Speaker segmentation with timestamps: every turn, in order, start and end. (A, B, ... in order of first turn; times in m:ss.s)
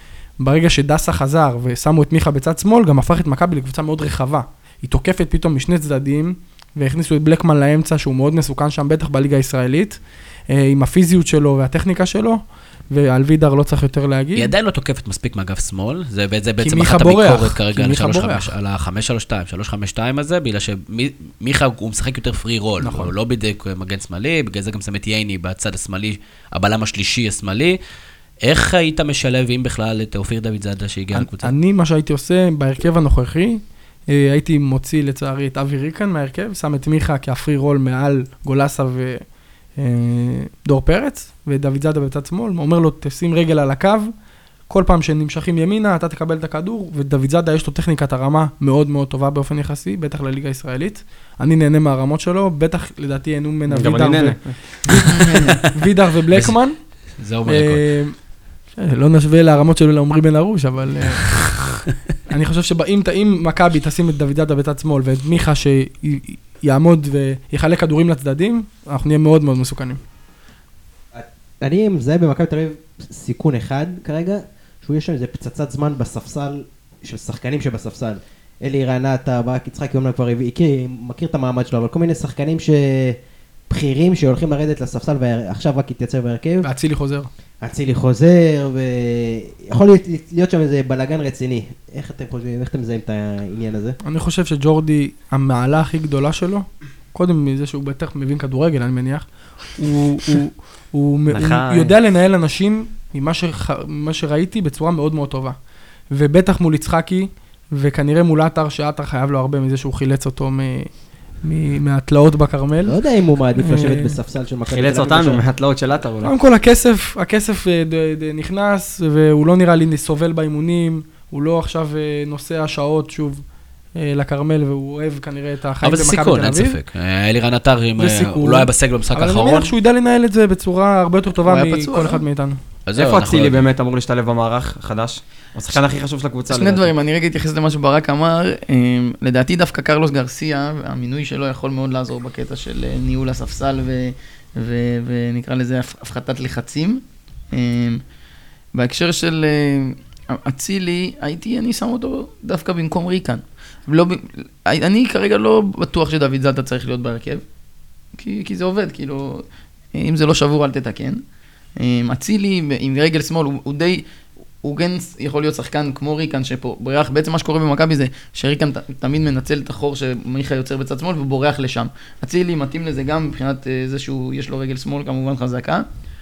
0:00.4-0:14.5 A
0:14.3-0:27.8 B
0:16.6-0:18.5 A
0:22.8-0:23.1 A
0:28.4-0:31.5 B
0:31.1-0:44.1 A
0:44.7-0:58.2 A
0:53.7-0:54.8 C
0:56.3-0:57.8 B
0:58.7-1:01.5 A
1:02.3-1:10.0 A
1:11.1-1:23.2 D
1:23.7-1:26.7 D
1:26.6-1:27.3 A
1:27.6-1:34.0 D
1:34.0-1:45.6 A
1:41.3-1:41.9 C
1:46.1-1:53.0 A
1:52.8-1:55.4 D
1:53.6-1:54.2 A
1:54.7-1:56.3 C
1:56.2-2:06.8 A
2:05.8-2:09.7 B
2:08.0-2:12.6 A
2:11.4-2:12.2 E
2:12.8-2:13.6 B
2:13.0-2:16.9 C
2:16.5-2:28.0 E
2:28.7-2:37.4 E
2:38.2-2:41.2 E
2:41.8-2:44.0 E
2:44.6-2:55.8 E